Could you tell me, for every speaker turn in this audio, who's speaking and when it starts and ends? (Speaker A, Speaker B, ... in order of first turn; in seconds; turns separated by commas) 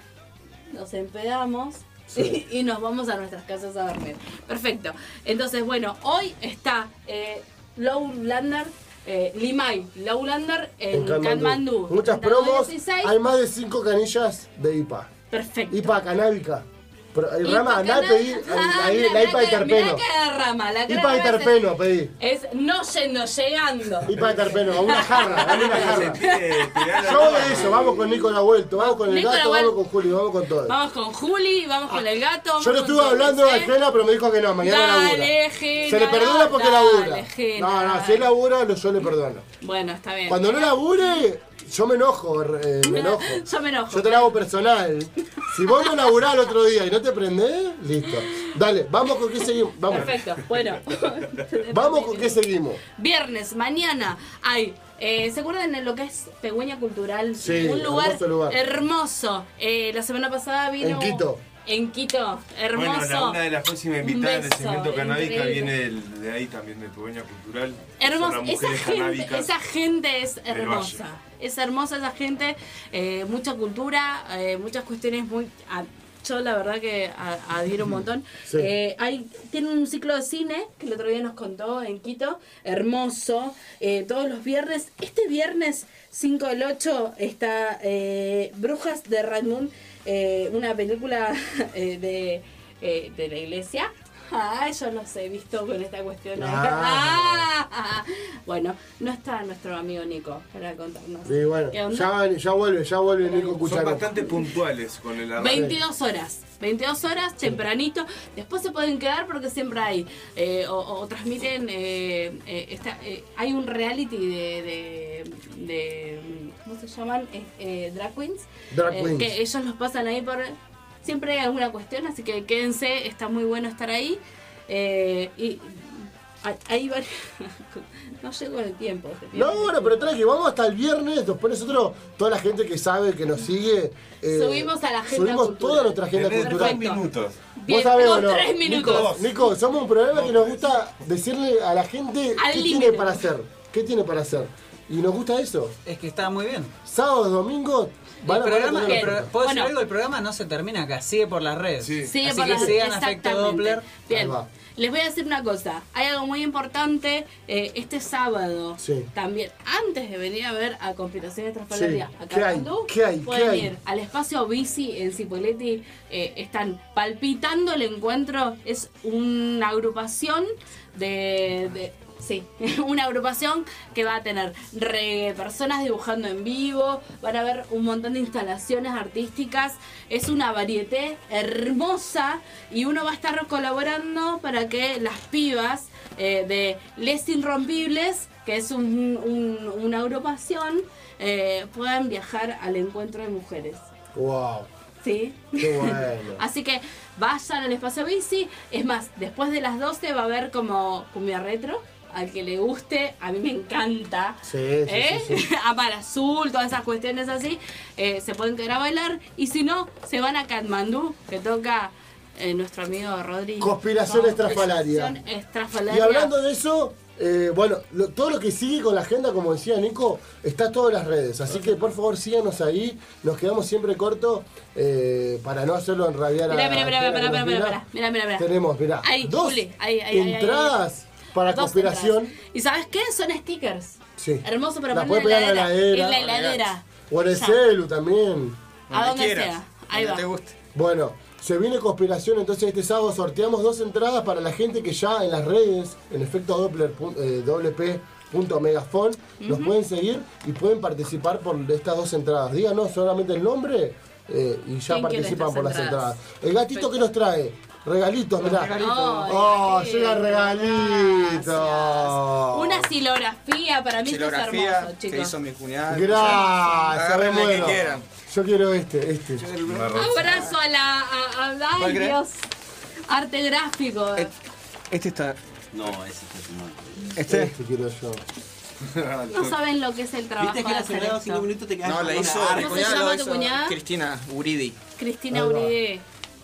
Speaker A: 0.7-13.1, Speaker B: 2.1-2.4, Speaker B: 10.9-15.1, Speaker A: 15.3-16.0, Speaker B: 15.7-20.0, Speaker A: 17.4-21.6, Speaker B: 20.9-22.1, Speaker A: 22.2-24.1, Speaker B: 24.0-26.2, Speaker C: 24.1-24.7, Speaker A: 24.7-27.9, Speaker C: 25.6-27.9, Speaker B: 27.1-30.8, Speaker A: 28.7-29.8, Speaker A: 30.6-33.8, Speaker B: 32.6-35.3, Speaker A: 34.6-38.3, Speaker B: 35.8-39.4, Speaker A: 39.6-40.8, Speaker B: 40.3-50.1, Speaker A: 42.8-44.4, Speaker A: 45.4-46.1, Speaker A: 48.2-48.5, Speaker A: 49.9-52.4, Speaker B: 51.7-52.8, Speaker A: 52.9-63.4, Speaker B: 57.4-58.6, Speaker B: 60.8-61.4, Speaker C: 62.7-69.5, Speaker A: 64.0-65.7, Speaker A: 68.0-102.1, Speaker C: 70.5-71.0, Speaker B: 96.3-97.5, Speaker B: 101.2-104.1, Speaker A: 103.2-104.4, Speaker C: 103.6-105.7, Speaker A: 105.3-130.1, Speaker B: 105.4-105.8, Speaker B: 118.7-119.3, Speaker B: 129.3-136.9, Speaker A: 134.2-137.0, Speaker C: 136.1-137.3, Speaker A: 137.6-139.2, Speaker B: 137.7-145.8, Speaker C: 138.7-139.5, Speaker C: 140.1-140.6, Speaker A: 142.3-143.2, Speaker D: 145.8-146.7, Speaker B: 146.8-149.3, Speaker D: 148.2-153.9, Speaker A: 148.7-149.7, Speaker C: 151.8-152.1, Speaker A: 152.0-193.8, Speaker B: 154.1-154.5, Speaker B: 158.8-159.1, Speaker B: 161.7-163.7, Speaker B: 194.1-194.7, Speaker A: 195.0-216.3, Speaker B: 195.6-196.4, Speaker B: 204.4-205.4, Speaker B: 213.6-215.2, Speaker B: 215.9-227.8, Speaker A: 226.5-228.5, Speaker B: 228.4-232.3, Speaker A: 229.0-230.8, Speaker A: 231.4-237.6, Speaker B: 234.2-238.6, Speaker E: 238.9-240.5, Speaker A: 238.9-240.2, Speaker B: 240.7-262.9, Speaker A: 249.4-249.7, Speaker A: 254.9-256.2, Speaker E: 258.4-259.3, Speaker A: 258.6-265.3, Speaker E: 264.0-268.0, Speaker B: 265.9-269.5, Speaker E: 269.4-270.6, Speaker C: 269.6-270.4, Speaker A: 269.9-272.5, Speaker E: 271.8-272.2, Speaker A: 273.1-274.3, Speaker E: 274.9-275.4, Speaker F: 275.7-277.1, Speaker E: 277.1-277.5, Speaker B: 277.2-278.2, Speaker E: 279.2-279.5, Speaker A: 279.3-281.5, Speaker F: 280.4-283.0, Speaker E: 281.8-284.8, Speaker A: 282.5-283.8, Speaker A: 285.0-286.0, Speaker B: 285.3-285.7